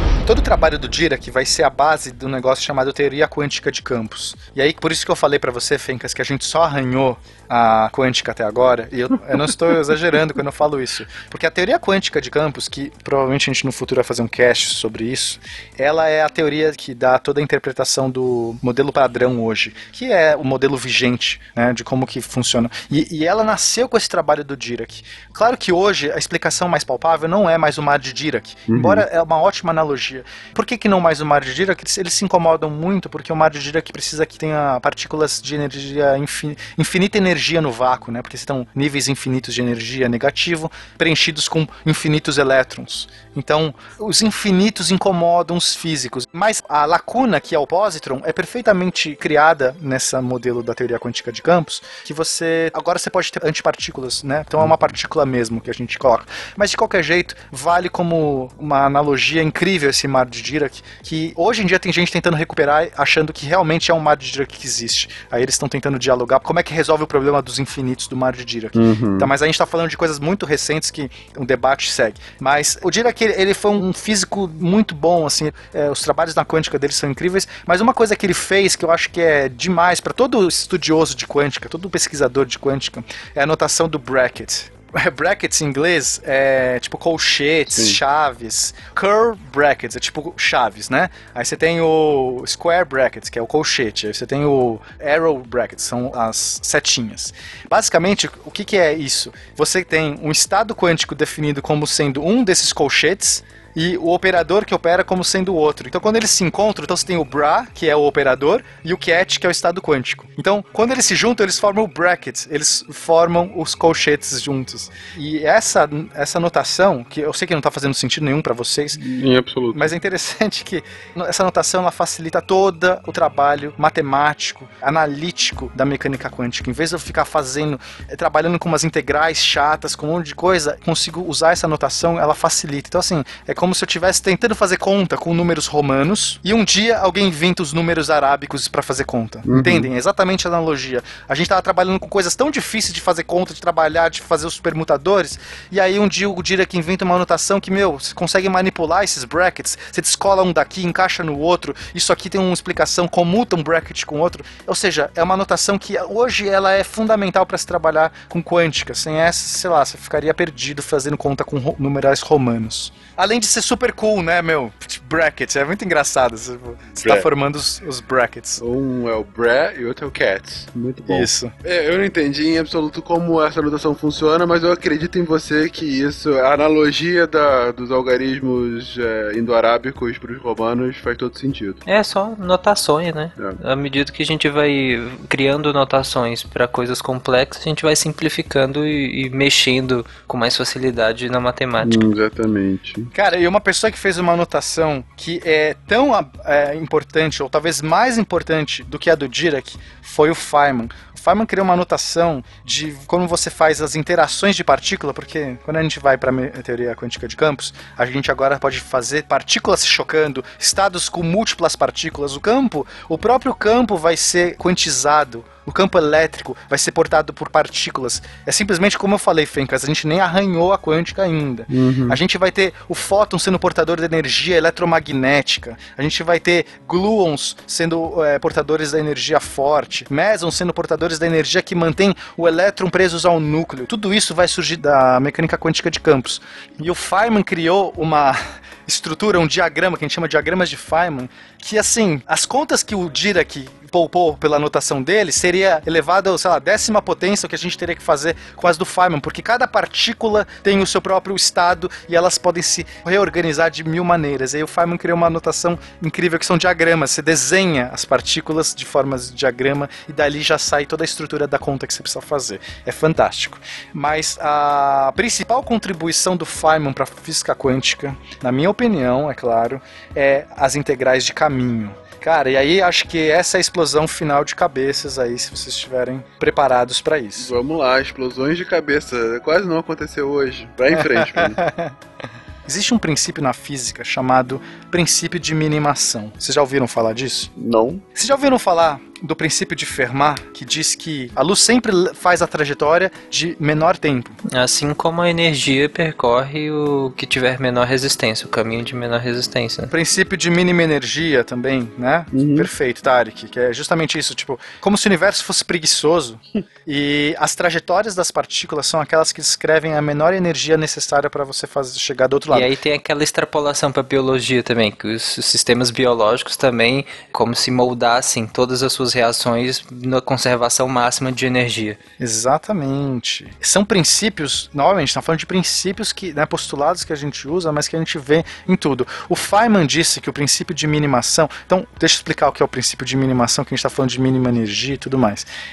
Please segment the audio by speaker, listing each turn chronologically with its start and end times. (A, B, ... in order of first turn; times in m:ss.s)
0:00.2-1:59.0 A
0:28.7-0:29.0 B
1:08.8-1:09.3 B
1:27.7-1:28.0 B
1:59.0-1:59.9 B
1:59.7-2:48.6 A
2:19.5-2:19.9 B
2:47.0-2:47.3 B
2:48.6-3:01.8 B
2:51.1-2:51.5 A
3:01.8-3:12.0 C
3:11.8-3:13.1 B
3:13.1-4:37.5 A
3:41.7-3:42.2 B
4:37.4-4:41.6 B
4:41.0-4:41.9 A
4:42.7-4:47.5 A
4:47.6-4:48.0 B
4:48.2-4:54.4 A
4:54.5-4:59.9 C
4:59.9-5:12.7 A
5:02.3-5:02.7 B
5:12.5-5:22.0 C
5:22.2-5:35.5 A